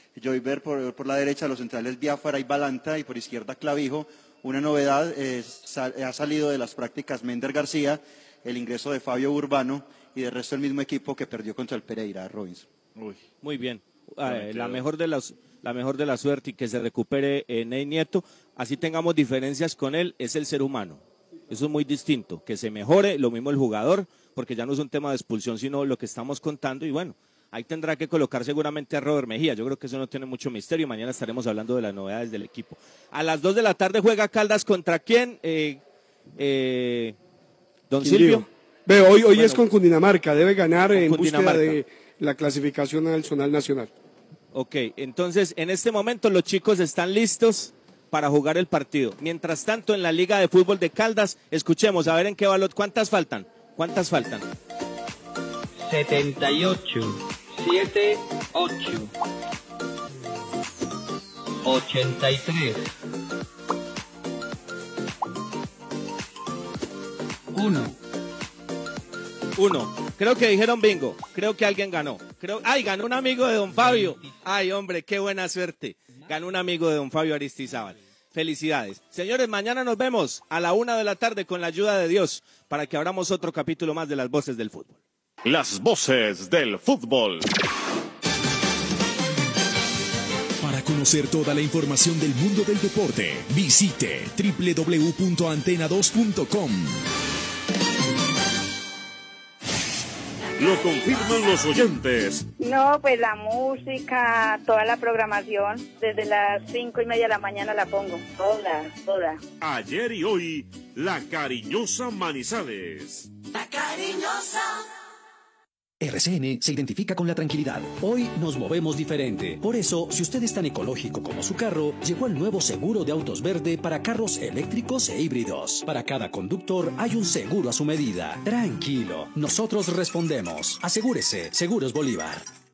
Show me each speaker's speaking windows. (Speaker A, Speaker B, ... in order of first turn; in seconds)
Speaker A: 0.1-12.7
Speaker B: 13.4-35.8, 36.4-37.1, 37.9-38.5, 39.2-39.6, 40.9-41.8, 44.5-54.5, 69.6-85.0
Speaker C: 14.5-14.8, 85.4-87.5, 100.6-102.5, 109.6-113.3
Speaker D: 38.0-43.9
Speaker E: 55.8-59.1, 61.6-62.8, 67.5-68.0, 73.7-74.3
Speaker F: 90.6-96.9
Speaker G: 102.6-109.4
Speaker H: 116.0-132.4